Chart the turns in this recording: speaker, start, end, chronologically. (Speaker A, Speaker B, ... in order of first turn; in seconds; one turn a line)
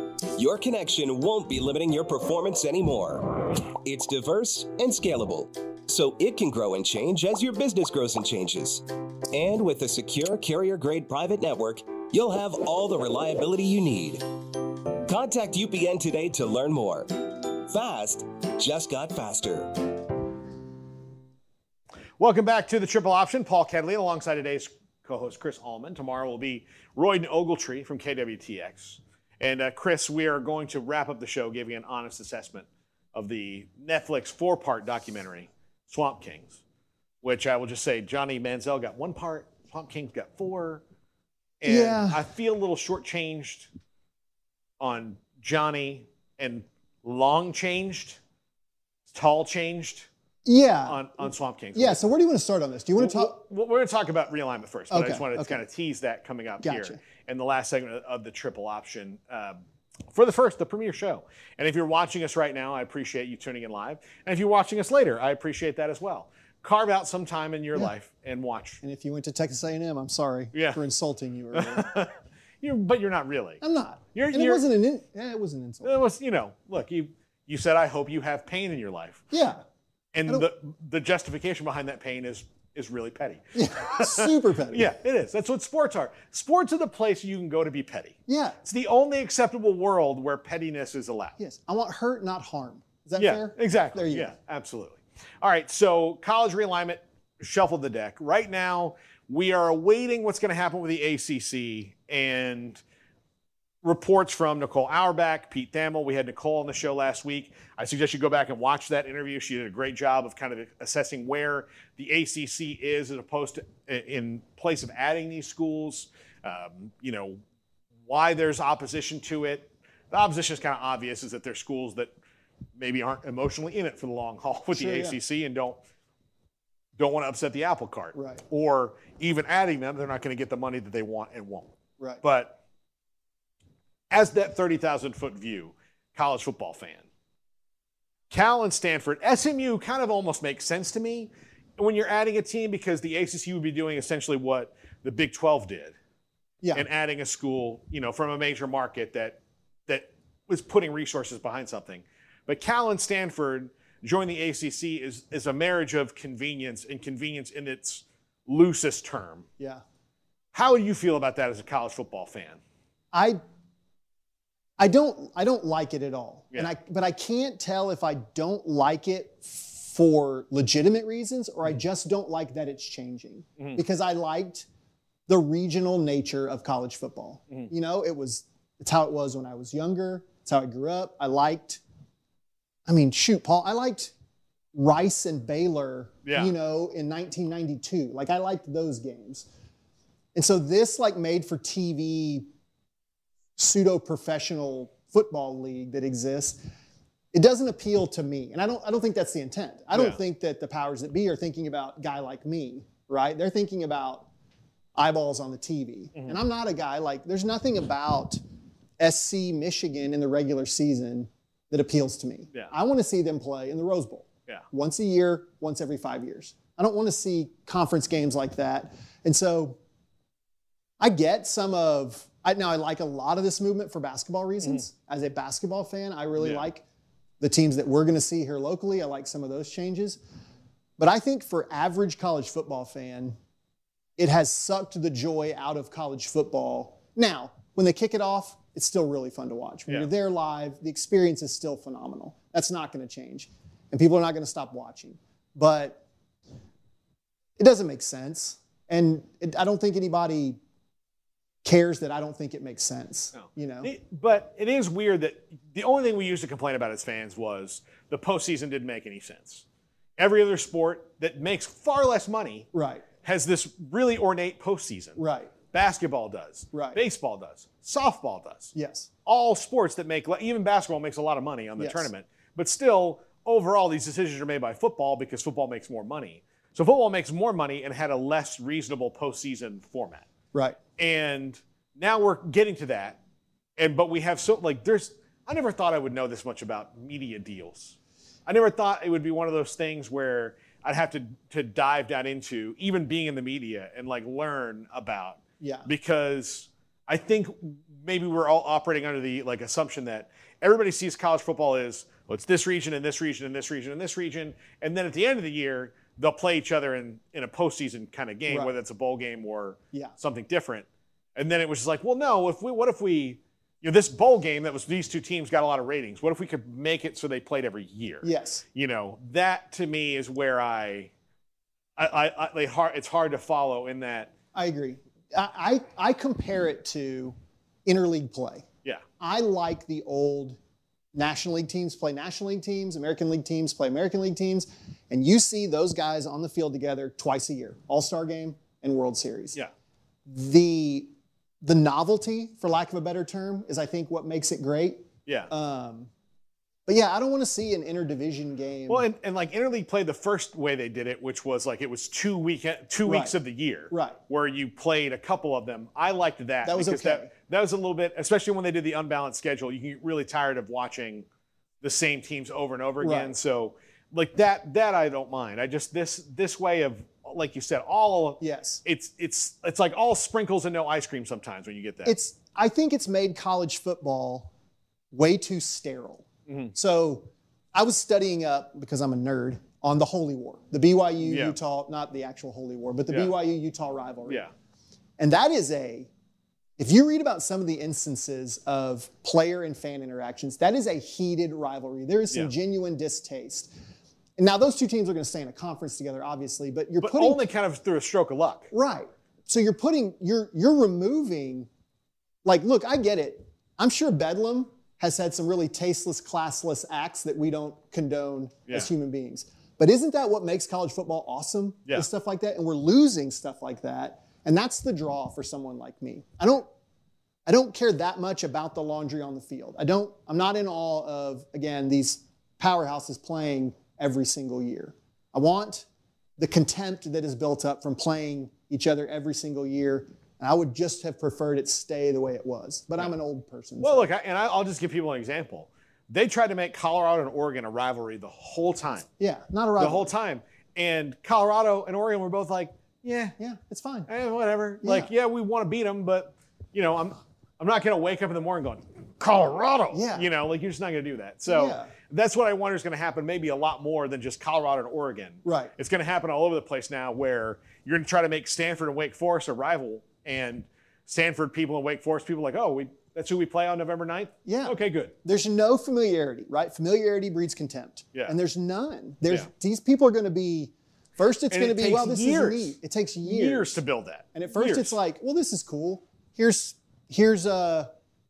Speaker A: 0.3-14.2
Speaker A: 15.1-19.8
Speaker B: 22.2-36.6
Speaker B: 37.2-40.8
Speaker B: 41.6-43.7
Speaker C: 41.6-42.2
Speaker B: 44.8-48.2
Speaker B: 49.1-50.1
Speaker C: 50.5-53.4
Speaker B: 50.9-52.0
Speaker B: 53.0-59.6
Speaker C: 54.9-55.6
Speaker C: 56.6-57.0
Speaker B: 60.1-68.8
Speaker C: 68.8-72.0
Speaker B: 70.5-70.8
Speaker B: 71.5-73.6
Speaker C: 73.6-76.0
Speaker B: 74.2-74.7
Speaker B: 75.8-79.2
Speaker C: 79.3-79.6
Speaker B: 80.1-91.4
Speaker C: 83.5-84.9
Speaker C: 88.3-88.6
Speaker C: 91.4-94.3
Speaker B: 93.2-102.8
Speaker B: 103.8-117.4
Speaker B: 118.1-122.1
Speaker B: 122.8-125.8
Speaker C: 124.7-125.2
Speaker B: 127.0-131.7
Speaker C: 128.2-128.4
Speaker B: 132.2-132.6
Speaker B: 134.1-137.1
Speaker B: 138.3-145.9
Speaker B: 146.7-159.5
Speaker B: 160.5-162.6
Speaker C: 163.1-163.4
Speaker C: 164.8-174.7
Speaker C: 175.3-181.8
Speaker C: 182.9-184.1
Speaker C: 184.7-189.5
Speaker B: 186.2-186.5
Speaker C: 190.3-192.5
Speaker C: 193.6-196.6
Speaker C: 197.3-204.3
Speaker B: 199.9-200.2
Speaker C: 205.0-208.4
Speaker C: 209.0-219.8
Speaker C: 221.0-226.8
Speaker B: 226.4-226.7
Speaker C: 227.4-230.2
Speaker C: 231.0-233.4
Speaker C: 234.2-246.0
Speaker C: 247.6-250.6
Speaker C: 251.6-253.9
Speaker B: 253.3-259.6
Speaker B: 260.2-262.7
Speaker C: 262.7-263.1
Speaker B: 263.2-265.2
Speaker C: 265.2-265.5
Speaker B: 265.7-268.7
Speaker C: 266.7-267.0
Speaker C: 268.7-269.1
Speaker B: 269.3-280.3
Speaker C: 271.8-272.1
Speaker C: 280.5-280.8
Speaker B: 281.0-283.2
Speaker B: 283.8-321.1
Speaker C: 295.6-295.9
Speaker C: 308.5-308.7
Speaker C: 318.2-318.6
Speaker B: 322.0-324.3
Speaker C: 324.5-328.7
Speaker C: 329.2-330.6
Speaker C: 331.1-339.6
Speaker C: 340.3-346.1
Speaker C: 346.9-349.1
Speaker B: 348.9-361.2
Speaker C: 353.1-353.4
Speaker C: 353.9-354.2
Speaker C: 356.6-357.3
Speaker B: 361.8-372.2
Speaker C: 363.0-363.4
Speaker C: 368.4-368.8
Speaker C: 372.1-374.5
Speaker C: 375.1-384.4
Speaker B: 376.5-376.7
Speaker B: 381.2-381.6
Speaker C: 385.2-386.1
Speaker C: 386.8-393.7
Speaker C: 394.4-397.4
Speaker B: 397.0-398.7
Speaker C: 398.7-401.7
Speaker C: 402.4-416.7
Speaker C: 417.5-425.9
Speaker C: 426.4-434.1
Speaker B: 433.8-439.1
Speaker C: 439.2-440.1
Speaker B: 439.8-443.3
Speaker C: 443.4-444.1
Speaker B: 444.1-465.1
Speaker C: 444.8-445.1
Speaker C: 449.9-450.3
Speaker C: 451.5-451.9
Speaker C: 455.4-455.7
Speaker C: 464.5-473.8
Speaker B: 471.5-475.0
Speaker C: 474.3-477.9